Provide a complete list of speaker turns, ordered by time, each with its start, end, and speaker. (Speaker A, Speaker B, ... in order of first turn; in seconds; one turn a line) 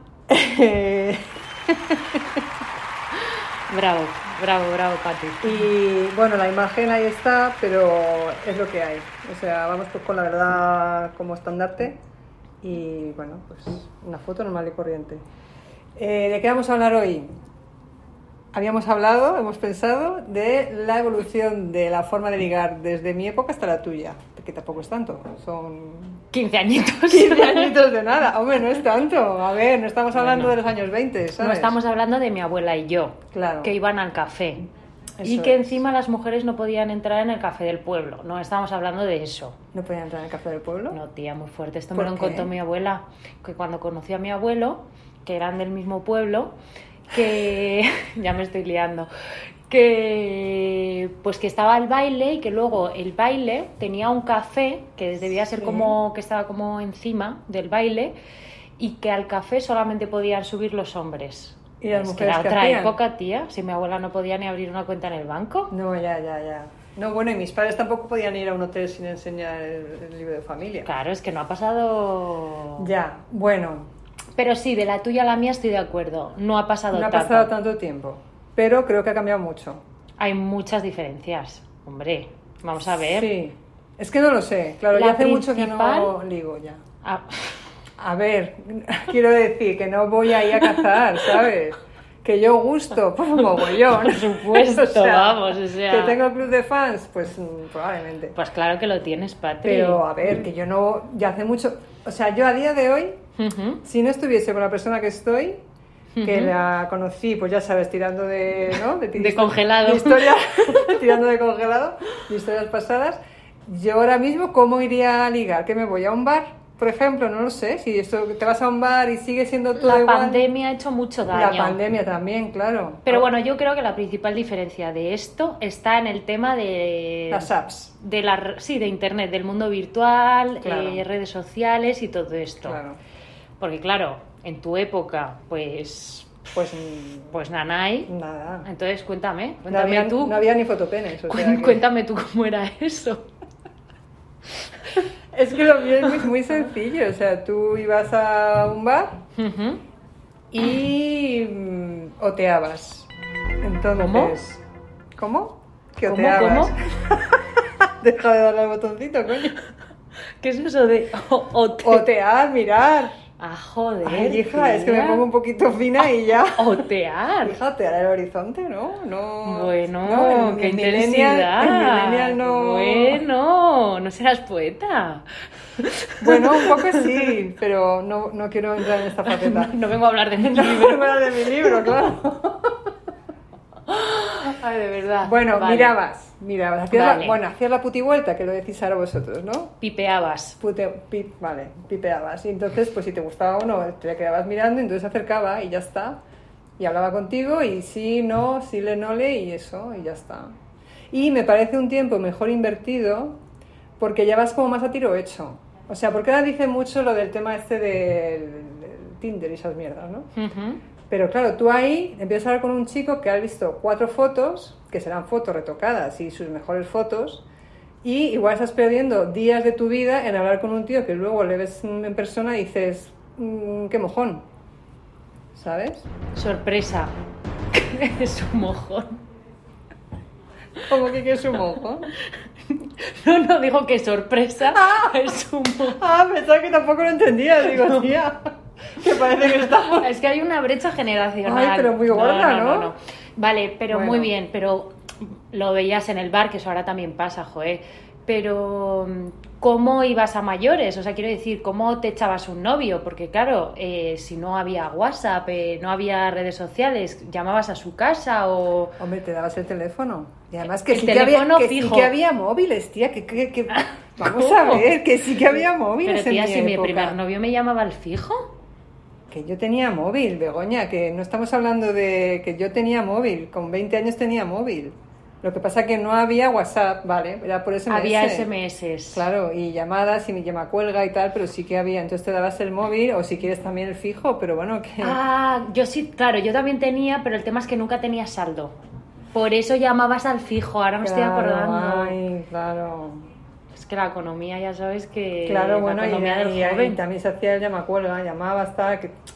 Speaker A: 0.3-2.4
Speaker B: 3.7-5.7
Speaker A: 5.4-12.0
Speaker A: 12.6-15.2
Speaker A: 16.0-17.3
Speaker A: 18.5-26.2
Speaker B: 26.3-27.8
Speaker A: 27.1-31.8
Speaker B: 30.1-30.6
Speaker B: 31.4-34.6
Speaker A: 33.3-33.7
Speaker A: 35.2-35.8
Speaker B: 35.2-39.6
Speaker A: 39.7-41.0
Speaker B: 40.9-46.5
Speaker A: 41.9-42.5
Speaker B: 47.1-49.1
Speaker B: 49.7-58.1
Speaker A: 55.6-56.0
Speaker B: 58.8-65.7
Speaker A: 61.8-63.0
Speaker A: 65.7-70.9
Speaker B: 70.8-72.9
Speaker A: 72.8-73.9
Speaker B: 74.4-77.5
Speaker A: 76.9-79.8
Speaker B: 80.2-83.3
Speaker A: 82.9-86.8
Speaker B: 84.9-86.1
Speaker B: 87.0-87.5
Speaker A: 88.0-98.4
Speaker B: 90.7-91.0
Speaker B: 93.7-96.2
Speaker B: 98.3-100.0
Speaker A: 99.6-103.2
Speaker B: 103.4-103.8
Speaker A: 103.8-105.6
Speaker B: 106.2-106.5
Speaker A: 106.2-120.5
Speaker B: 109.2-111.0
Speaker B: 119.8-121.8
Speaker A: 121.3-123.3
Speaker B: 123.1-132.8
Speaker A: 127.3-127.9
Speaker A: 130.6-131.1
Speaker A: 132.6-133.0
Speaker B: 133.6-136.4
Speaker A: 136.5-137.4
Speaker B: 137.3-138.1
Speaker A: 138.1-138.7
Speaker B: 138.7-140.4
Speaker A: 139.7-141.8
Speaker B: 141.3-143.3
Speaker A: 145.3-149.2
Speaker B: 146.0-146.3
Speaker B: 149.4-149.8
Speaker A: 150.5-153.1
Speaker A: 153.6-154.6
Speaker B: 154.0-154.4
Speaker A: 155.2-159.6
Speaker B: 156.1-156.7
Speaker B: 160.4-162.1
Speaker A: 161.8-163.2
Speaker B: 163.4-165.2
Speaker A: 164.0-166.9
Speaker B: 166.6-167.6
Speaker A: 167.4-173.2
Speaker B: 169.4-175.3
Speaker B: 175.8-177.1
Speaker A: 176.2-179.8
Speaker B: 179.4-181.9
Speaker A: 180.4-182.9
Speaker B: 183.9-185.9
Speaker A: 185.2-189.7
Speaker B: 186.9-187.4
Speaker B: 189.8-190.6
Speaker A: 190.6-196.2
Speaker A: 196.8-200.5
Speaker A: 201.1-203.4
Speaker A: 204.0-210.3
Speaker B: 210.4-210.8
Speaker A: 211.1-217.4
Speaker A: 218.0-224.4
Speaker A: 225.6-226.1
Speaker B: 226.3-227.1
Speaker B: 227.7-229.2
Speaker A: 230.8-232.1
Speaker B: 232.7-236.0
Speaker A: 234.7-235.2
Speaker A: 236.0-240.1
Speaker B: 237.7-238.1
Speaker B: 239.8-244.9
Speaker A: 241.4-242.9
Speaker A: 243.9-244.3
Speaker B: 245.5-259.0
Speaker A: 259.0-267.2
Speaker B: 260.9-262.1
Speaker B: 263.7-265.0
Speaker B: 266.0-268.5
Speaker A: 269.3-278.5
Speaker B: 277.9-279.3
Speaker A: 279.1-285.2
Speaker B: 285.0-288.8
Speaker B: 289.3-292.2
Speaker A: 291.0-293.3
Speaker B: 293.7-297.0
Speaker A: 295.5-299.1